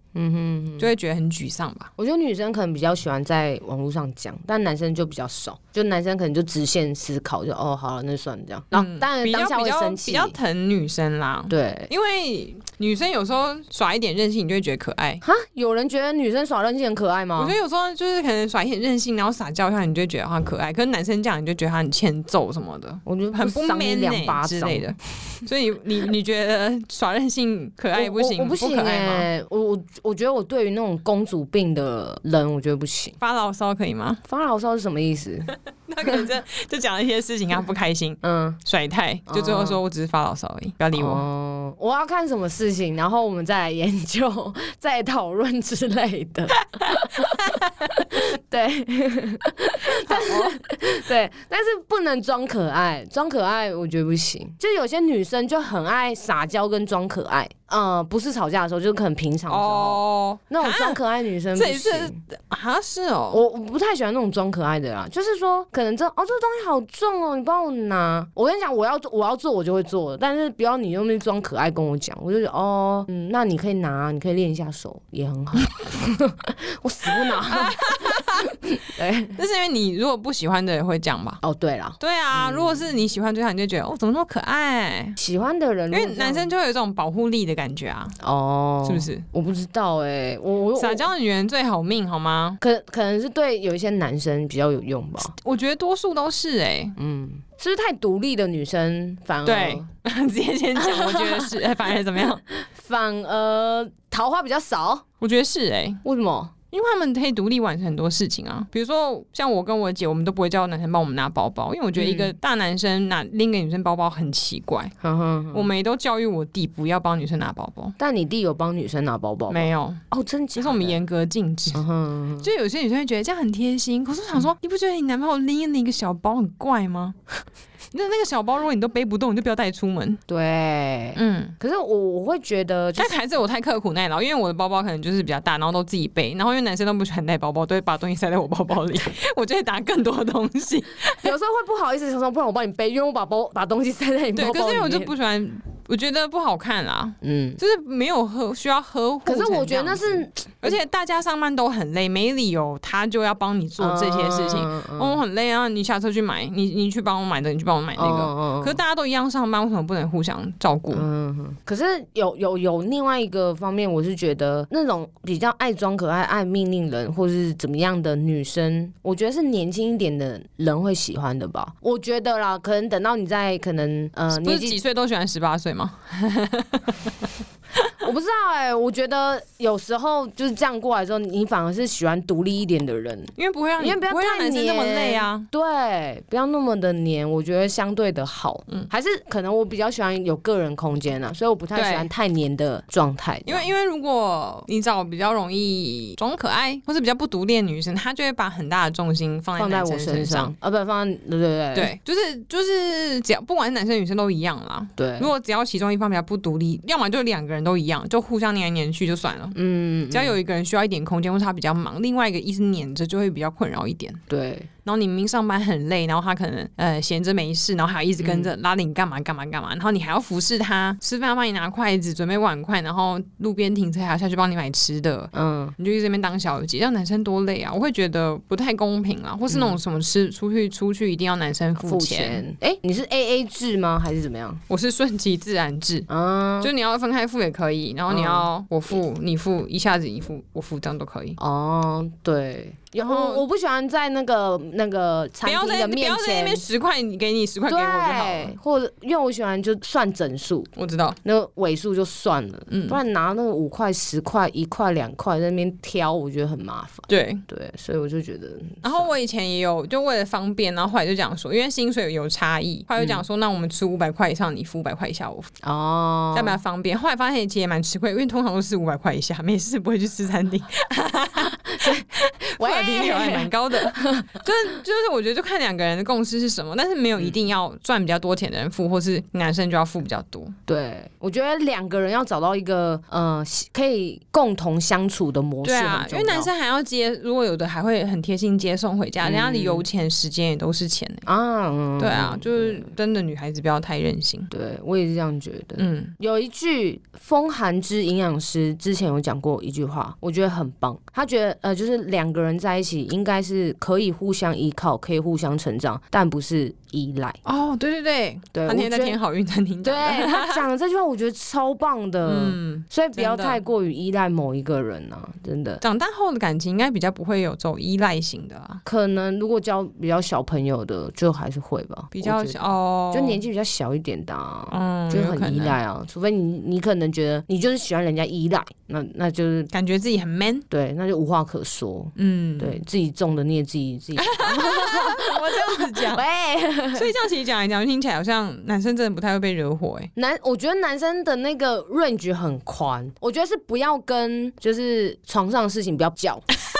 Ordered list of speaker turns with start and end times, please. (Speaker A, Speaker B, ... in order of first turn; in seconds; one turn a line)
Speaker A: 0.1-0.9
Speaker B: 0.8-1.9
Speaker A: 2.0-10.3
Speaker B: 8.7-15.2
Speaker A: 11.5-11.9
Speaker A: 15.2-17.5
Speaker B: 17.4-29.3
Speaker A: 23.1-25.4
Speaker A: 27.9-33.2
Speaker B: 33.2-34.2
Speaker A: 34.2-36.2
Speaker B: 35.9-41.2
Speaker A: 38.2-38.6
Speaker A: 39.3-39.8
Speaker A: 40.9-47.5
Speaker B: 46.8-48.3
Speaker A: 48.0-62.2
Speaker B: 49.9-50.6
Speaker B: 59.5-61.0
Speaker B: 61.5-63.4
Speaker A: 63.3-79.4
Speaker B: 77.1-78.5
Speaker B: 79.3-81.4
Speaker A: 81.4-82.9
Speaker B: 82.0-85.2
Speaker A: 85.2-86.5
Speaker B: 85.9-88.2
Speaker A: 88.2-91.1
Speaker B: 88.8-89.2
Speaker B: 90.8-92.6
Speaker A: 92.6-95.3
Speaker B: 95.4-97.0
Speaker A: 97.0-99.8
Speaker B: 99.4-102.4
Speaker A: 100.8-101.5
Speaker A: 102.5-105.0
Speaker B: 105.2-106.0
Speaker A: 106.0-106.5
Speaker B: 106.7-114.9
Speaker A: 112.0-112.3
Speaker A: 115.0-115.7
Speaker B: 115.5-117.9
Speaker A: 118.0-121.0
Speaker B: 119.5-120.0
Speaker B: 120.5-121.8
Speaker A: 121.7-122.5
Speaker B: 122.4-127.2
Speaker B: 127.9-130.2
Speaker A: 130.3-133.1
Speaker B: 131.2-131.5
Speaker B: 132.9-141.3
Speaker A: 141.2-145.1
Speaker B: 144.3-161.1
Speaker A: 147.2-147.6
Speaker A: 149.2-150.8
Speaker A: 153.8-155.2
Speaker A: 157.9-158.8
Speaker A: 160.9-174.8
Speaker B: 174.3-177.9
Speaker A: 178.0-193.7
Speaker B: 183.4-185.5
Speaker B: 191.7-192.1
Speaker B: 193.4-200.5
Speaker A: 199.6-201.9
Speaker B: 201.7-209.6
Speaker A: 205.0-205.3
Speaker A: 209.5-210.4
Speaker B: 210.1-214.2
Speaker A: 214.3-214.7
Speaker B: 214.8-232.4
Speaker A: 218.2-218.5
Speaker A: 225.3-225.7
Speaker A: 229.5-229.8
Speaker A: 231.8-234.6
Speaker B: 234.7-236.1
Speaker A: 236.1-236.7
Speaker B: 236.6-241.4
Speaker A: 238.1-238.5
Speaker A: 241.4-246.6
Speaker B: 243.0-243.4
Speaker B: 245.4-248.5
Speaker A: 247.7-250.7
Speaker B: 250.8-251.2
Speaker A: 251.2-259.1
Speaker B: 252.7-253.0
Speaker B: 257.1-257.4
Speaker B: 258.8-265.5
Speaker A: 265.6-266.6
Speaker B: 266.3-280.6
Speaker A: 271.4-274.4
Speaker A: 280.7-286.5
Speaker B: 285.6-291.2
Speaker A: 289.2-289.9
Speaker A: 291.2-292.9
Speaker B: 292.0-294.5
Speaker A: 294.5-307.4
Speaker B: 295.8-296.1
Speaker B: 307.4-310.6
Speaker A: 308.5-309.2
Speaker A: 309.8-315.8
Speaker B: 312.2-313.6
Speaker B: 315.8-318.8
Speaker A: 318.8-329.7
Speaker B: 322.1-323.4
Speaker B: 324.7-325.8
Speaker B: 329.7-330.6
Speaker A: 330.7-337.1
Speaker B: 332.1-332.8
Speaker B: 334.2-336.2
Speaker B: 336.9-340.1
Speaker A: 340.1-346.5